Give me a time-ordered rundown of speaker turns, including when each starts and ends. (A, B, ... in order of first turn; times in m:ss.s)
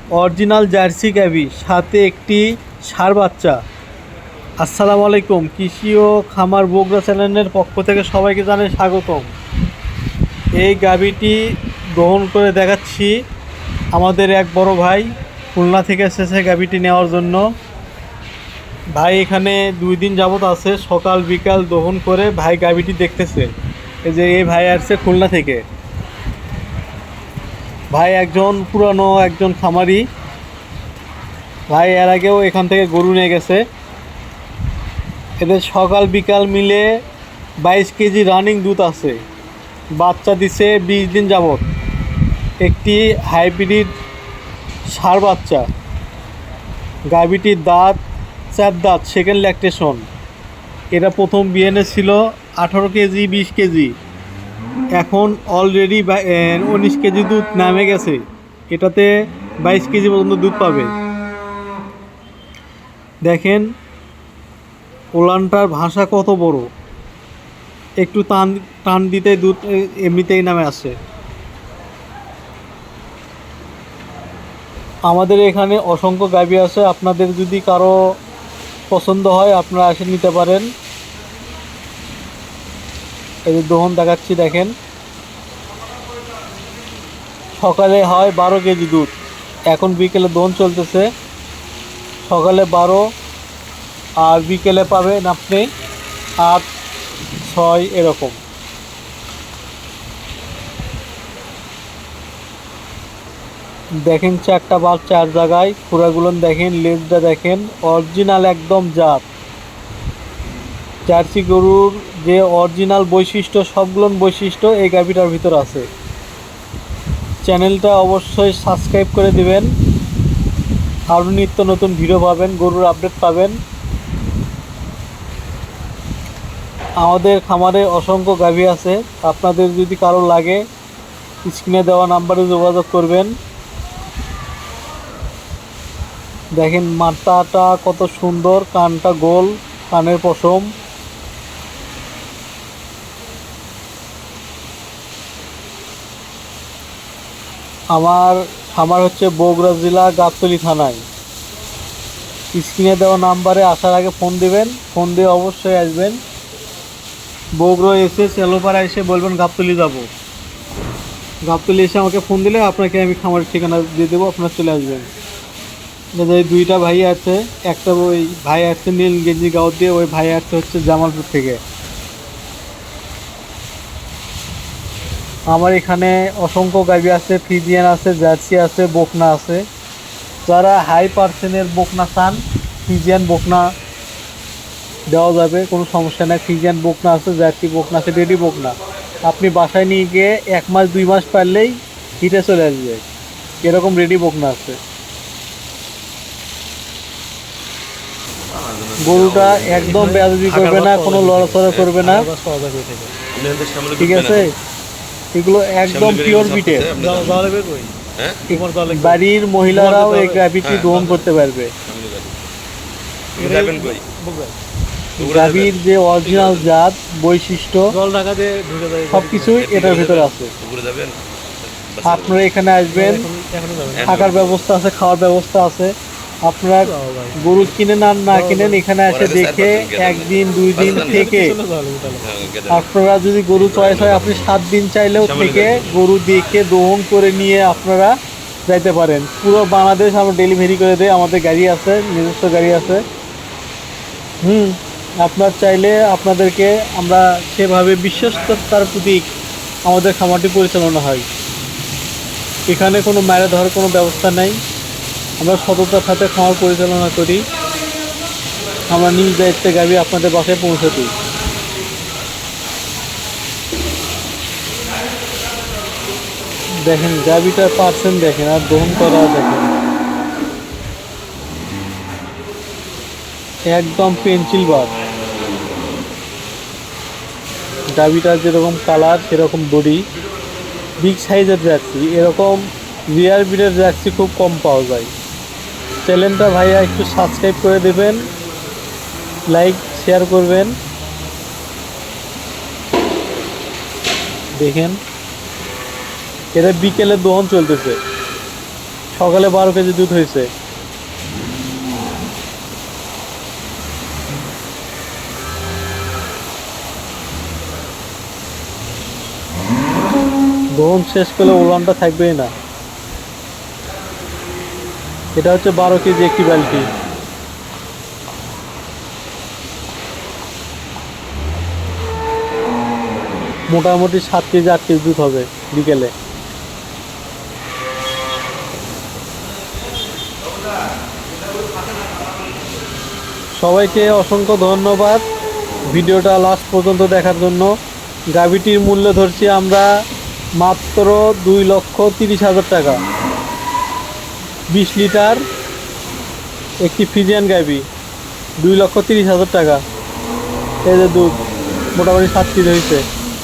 0:00.1-0:03.6 A
0:04.6-0:09.3 A
0:10.6-0:11.4 A
0:11.9-0:13.1 A
0:13.9-0:17.4 A
0:18.9-0:23.5 A
0:24.0-0:25.6 A
0:27.9-0:30.1 A
0:31.7-0:33.6 A
0:35.4-0:36.9 A
0:37.6-0:39.2 A
0:40.0-0:41.6 A
0:42.6-0:43.9 A
0:44.9-0:45.6 A
0:47.1-0:48.0 A
0:48.5-0:50.0 A
0:50.9-0:53.9 A
0:54.9-0:59.1 A
0:59.6-1:00.9 A
1:03.2-1:03.6 A
1:05.1-1:06.7 A
1:08.0-1:10.9 A
1:15.1-1:18.0 A
1:18.9-1:20.7 A
1:23.4-1:24.7 A
1:27.6-1:29.1 A
1:29.7-1:31.1 A
1:32.2-1:33.1 A
1:34.2-1:35.7 A
1:36.4-1:36.7 A
1:37.4-1:38.4 A
1:44.0-1:49.2 A
1:51.1-1:55.9 A
1:57.4-1:59.7 A
2:01.1-2:03.6 A
2:07.0-2:10.6 A
2:11.4-2:13.3 A
2:16.5-2:20.7 A
2:27.9-2:31.0 A
2:32.5-2:36.2 A
2:37.6-2:40.1 A
2:41.4-2:45.1 A
2:46.1-2:51.6 A
2:55.5-2:59.6 A
3:00.5-3:03.7 A
3:05.1-3:13.0 A
3:13.6-3:14.8 A
3:18.5-3:20.0 B
3:19.0-3:22.3 A
3:19.8-3:23.1 C
3:23.3-3:24.5 B
3:24.0-3:24.5 A
3:25.3-3:26.9 A
3:25.9-3:27.4 B
3:27.0-3:27.9 C
3:28.1-3:28.4 B
3:28.5-3:30.4 C
3:28.9-3:31.7 A
3:30.6-3:31.2 B
3:31.8-3:32.4 B
3:33.4-3:34.0 B
3:33.4-3:34.6 C
3:35.2-3:36.7 B
3:35.2-3:37.9 A
3:37.9-3:40.3 C
3:39.1-3:40.5 A
3:39.6-3:42.4 B
3:42.0-3:43.3 A
3:42.9-3:44.2 C
3:43.9-3:44.6 B
3:44.0-3:51.6 A
3:46.8-3:47.7 C
3:48.3-3:48.8 C
3:49.1-3:51.3 B
3:50.8-3:52.2 C
3:52.2-3:52.9 B
3:52.7-3:58.1 A
3:53.5-3:54.5 B
3:55.2-3:55.9 B
3:58.7-4:03.0 A
4:04.4-4:09.3 A
4:09.8-4:11.2 A
4:12.7-4:14.6 A
4:15.4-4:17.4 A
4:18.9-4:21.1 A
4:26.8-4:29.7 A
4:33.6-4:34.9 A
4:37.9-4:40.0 A
4:41.0-4:45.1 A
4:46.0-4:48.3 A
4:49.5-4:50.8 A
4:54.6-4:55.0 A
4:56.5-4:58.0 A
4:59.1-5:00.5 A
5:10.7-5:12.5 A
5:15.4-5:16.9 A
5:23.7-5:26.1 A
5:33.5-5:35.2 A
5:35.9-5:37.7 A
5:38.3-5:39.9 A
5:40.6-5:43.0 A
5:44.7-5:45.4 A
5:46.8-5:47.8 A
5:48.6-5:49.8 A
5:50.8-5:51.3 A
5:51.9-5:53.0 A